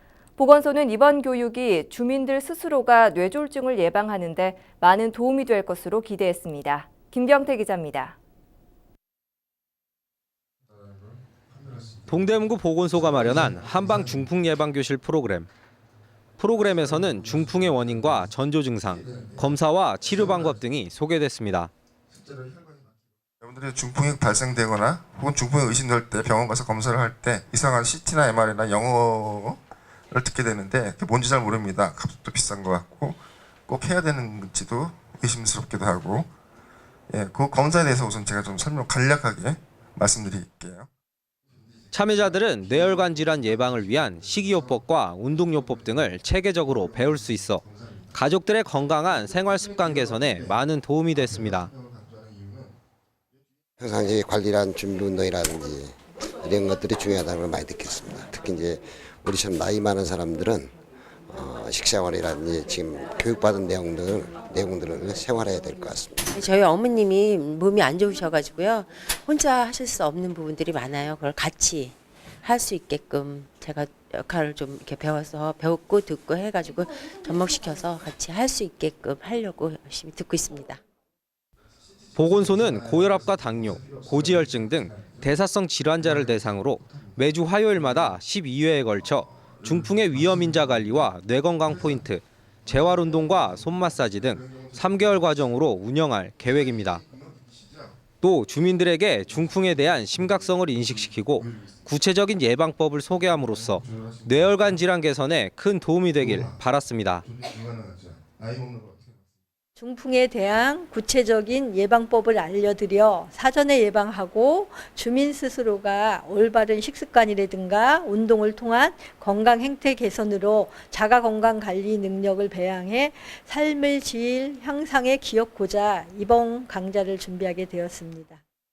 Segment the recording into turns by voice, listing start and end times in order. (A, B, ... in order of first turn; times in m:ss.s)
0:00.4-0:08.2 A
0:11.9-0:14.3 B
0:12.1-0:15.5 C
0:16.4-0:21.7 C
0:17.1-0:18.3 B
0:18.9-0:20.6 B
0:22.1-0:22.9 B
0:23.4-0:36.3 B
0:37.1-0:40.9 B
0:41.5-0:48.2 B
0:41.9-0:51.7 C
0:49.1-0:50.6 B
0:51.2-0:52.7 B
0:53.8-1:00.7 D
1:01.3-1:06.3 D
1:06.3-1:20.8 E
1:22.0-1:25.3 B
1:22.2-1:37.0 C
1:26.0-1:27.2 B
1:27.7-1:28.2 B
1:29.0-1:31.1 B
1:31.7-1:32.1 B
1:32.6-1:35.8 B
1:36.5-1:38.0 B
1:38.2-1:47.2 C
1:39.4-1:41.9 B
1:43.3-1:44.8 B
1:46.2-1:46.6 B
1:47.2-1:49.2 B
1:49.8-2:08.4 F